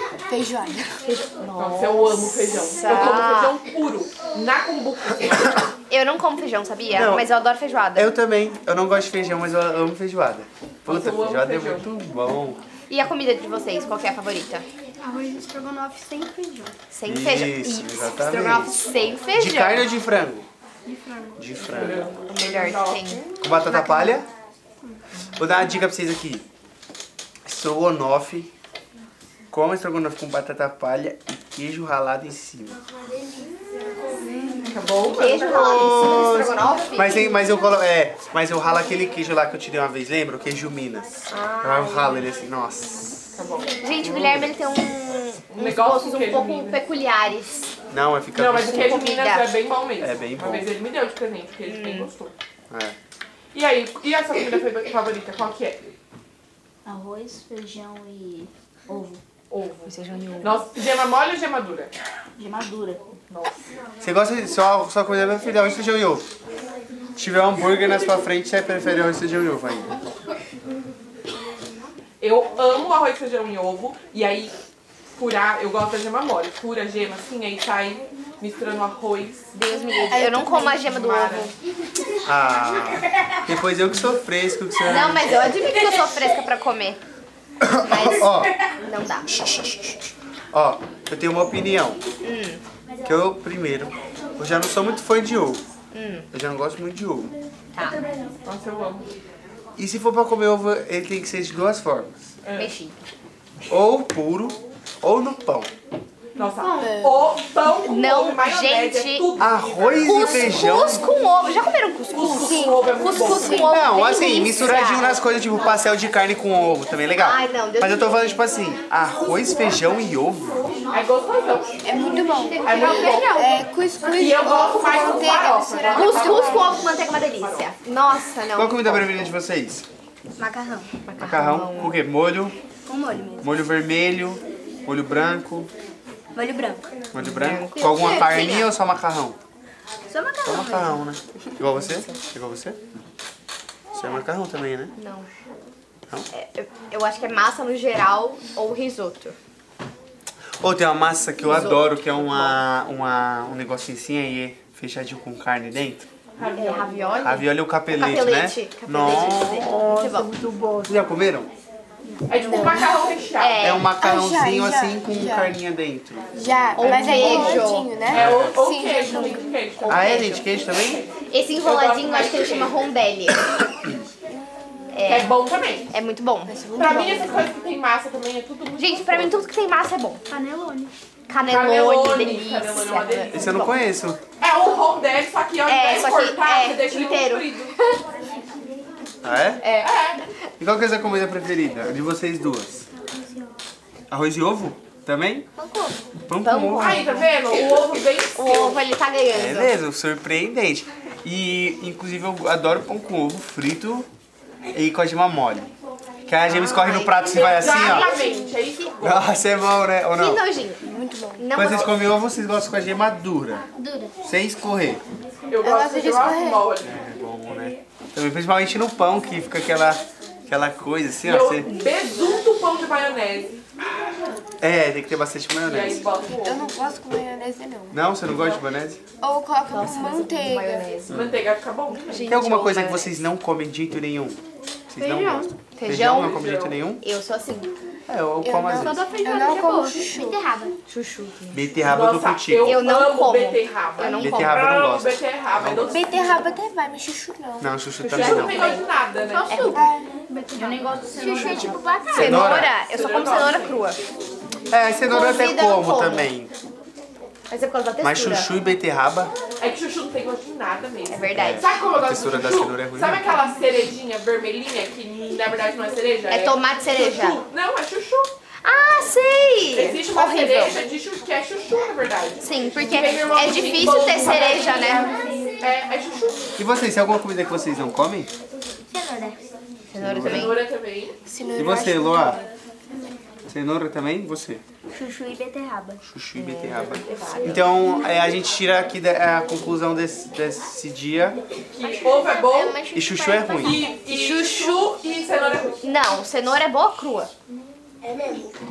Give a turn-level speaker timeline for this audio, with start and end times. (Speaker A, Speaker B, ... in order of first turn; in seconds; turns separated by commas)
Speaker A: 0.3-1.0, Speaker B: 1.0-3.6, Speaker C: 1.6-5.7, Speaker B: 5.9-8.1, Speaker D: 6.9-7.3, Speaker D: 7.9-12.6, Speaker C: 10.8-11.9, Speaker B: 12.9-14.6, Speaker E: 15.0-16.7, Speaker B: 16.9-19.9, Speaker D: 17.1-20.5, Speaker E: 20.9-21.4, Speaker D: 21.4-22.1, Speaker C: 21.6-23.4, Speaker B: 22.2-24.2, Speaker D: 23.4-24.3, Speaker D: 25.3-26.4, Speaker D: 27.4-28.5, Speaker D: 29.5-32.8, Speaker E: 34.1-34.9, Speaker C: 34.6-36.0, Speaker B: 35.0-37.4, Speaker D: 35.4-43.3, Speaker B: 41.3-42.3, Speaker C: 43.3-43.7, Speaker B: 43.8-47.7, Speaker D: 44.0-44.5, Speaker C: 45.5-46.8, Speaker D: 47.9-49.0, Speaker C: 48.3-52.3, Speaker B: 48.6-49.5, Speaker D: 50.0-50.7, Speaker B: 51.6-52.1, Speaker D: 52.7-53.0, Speaker C: 53.5-55.9, Speaker E: 56.9-59.2, Speaker C: 59.5-61.9, Speaker B: 59.8-60.6, Speaker E: 62.4-63.0, Speaker C: 63.3-63.5, Speaker D: 64.0-66.3, Speaker D: 67.2-70.0, Speaker C: 72.2-74.5, Speaker C: 75.1-79.5, Speaker B: 79.5-81.5, Speaker A: 80.1-80.8, Speaker C: 80.8-81.5, Speaker D: 82.2-85.5, Speaker B: 84.8-87.0, Speaker D: 87.6-88.5, Speaker B: 87.8-89.3, Speaker D: 89.3-92.0, Speaker B: 92.2-92.6, Speaker D: 93.0-95.6, Speaker B: 95.9-96.3, Speaker D: 96.3-97.3, Speaker B: 97.7-98.0, Speaker C: 98.4-99.1, Speaker D: 99.8-102.3, Speaker C: 102.4-102.7, Speaker B: 102.5-103.0, Speaker D: 103.7-105.7, Speaker C: 106.3-111.0, Speaker A: 106.8-107.3, Speaker B: 107.8-109.3, Speaker D: 109.4-111.1, Speaker B: 110.0-115.2, Speaker C: 112.1-113.8, Speaker A: 112.3-113.4, Speaker D: 113.4-120.7, Speaker B: 117.2-118.4, Speaker C: 120.9-123.3, Speaker A: 121.8-126.8, Speaker E: 122.4-122.7, Speaker B: 122.5-123.6, Speaker C: 124.1-127.7, Speaker B: 125.2-129.3, Speaker D: 128.5-129.8, Speaker E: 130.4-130.9, Speaker B: 131.0-132.0, Speaker D: 131.2-132.6, Speaker E: 132.8-133.6, Speaker D: 133.4-135.7, Speaker E: 136.3-136.9, Speaker D: 137.1-139.4, Speaker B: 137.2-138.7, Speaker E: 138.0-138.4, Speaker E: 140.1-141.0, Speaker D: 140.4-142.8, Speaker B: 141.6-142.2, Speaker D: 143.9-144.9, Speaker B: 144.9-145.3, Speaker B: 146.3-149.3, Speaker D: 150.6-156.1, Speaker B: 151.4-152.6, Speaker C: 156.3-157.2, Speaker B: 156.5-160.3, Speaker D: 157.1-160.1, Speaker E: 159.7-160.9, Speaker D: 160.8-161.5, Speaker C: 162.3-163.8, Speaker A: 162.3-162.9, Speaker B: 163.4-163.9, Speaker D: 163.6-166.4, Speaker A: 164.0-165.5, Speaker A: 166.3-170.2, Speaker B: 166.7-167.9, Speaker C: 166.8-172.9, Speaker D: 168.1-168.6, Speaker D: 169.8-171.0, Speaker B: 171.3-173.7, Speaker A: 174.3-174.9, Speaker B: 174.9-175.3, Speaker C: 175.0-175.9, Speaker B: 175.9-176.9, Speaker A: 176.5-177.4, Speaker C: 176.7-179.4, Speaker B: 178.8-180.2, Speaker E: 180.3-180.9, Speaker B: 181.3-183.8, Speaker C: 181.5-183.6, Speaker D: 183.3-184.2, Speaker C: 184.4-187.7, Speaker B: 185.7-188.0, Speaker D: 189.2-189.6, Speaker B: 189.6-189.9, Speaker C: 189.8-190.2, Speaker D: 190.6-192.9, Speaker D: 194.1-195.5, Speaker E: 195.6-195.9, Speaker D: 196.3-197.1, Speaker B: 196.4-199.8, Speaker C: 196.8-198.8, Speaker D: 199.3-204.1, Speaker D: 204.7-205.7, Speaker D: 206.2-208.1, Speaker B: 206.4-208.4, Speaker C: 207.4-209.4, Speaker A: 208.0-208.5, Speaker D: 209.0-210.4, Speaker B: 210.1-211.9, Speaker A: 210.9-211.4, Speaker D: 211.5-213.6, Speaker E: 213.8-214.1, Speaker D: 214.2-215.0, Speaker C: 215.5-216.9, Speaker A: 215.6-216.7, Speaker D: 216.8-221.7, Speaker C: 221.2-223.6, Speaker D: 224.6-226.0, Speaker C: 225.6-226.7, Speaker A: 226.4-228.1, Speaker D: 227.9-229.0, Speaker C: 228.3-228.7, Speaker A: 229.2-230.9, Speaker B: 229.7-231.2, Speaker D: 231.1-231.4, Speaker C: 231.1-232.4, Speaker B: 231.9-233.1, Speaker D: 232.3-237.0, Speaker E: 235.0-235.5, Speaker B: 235.7-236.4, Speaker C: 235.9-236.8, Speaker B: 236.9-237.7, Speaker D: 238.1-239.0, Speaker A: 238.4-240.4, Speaker B: 238.8-239.6, Speaker E: 238.8-240.7, Speaker B: 240.9-241.8, Speaker D: 241.5-242.8, Speaker C: 241.8-246.5, Speaker B: 242.6-245.0, Speaker D: 244.2-246.0, Speaker A: 245.8-247.7, Speaker D: 247.6-248.6, Speaker B: 248.0-248.8, Speaker C: 248.1-249.6, Speaker E: 249.3-252.2, Speaker B: 249.5-249.8, Speaker A: 249.7-250.2, Speaker A: 251.2-251.8, Speaker C: 252.1-253.8, Speaker B: 252.1-254.0, Speaker D: 252.1-252.7, Speaker D: 254.7-256.5, Speaker B: 255.1-256.3, Speaker B: 257.5-258.5, Speaker D: 258.0-259.3, Speaker C: 259.6-268.3, Speaker B: 261.1-261.8, Speaker D: 261.3-263.3, Speaker B: 266.3-267.4, Speaker B: 268.6-270.8, Speaker C: 269.7-276.5, Speaker B: 272.4-275.1, Speaker D: 276.6-278.3, Speaker E: 278.9-279.4, Speaker B: 279.9-280.6, Speaker D: 279.9-280.6, Speaker C: 280.2-281.2, Speaker A: 281.2-282.5, Speaker D: 281.5-282.4, Speaker D: 283.5-284.6, Speaker E: 284.9-286.0, Speaker D: 286.0-291.4, Speaker B: 286.3-287.6, Speaker C: 291.7-292.8, Speaker E: 291.9-293.9, Speaker D: 292.9-293.9, Speaker C: 293.6-295.8, Speaker B: 294.0-294.9, Speaker B: 295.8-297.3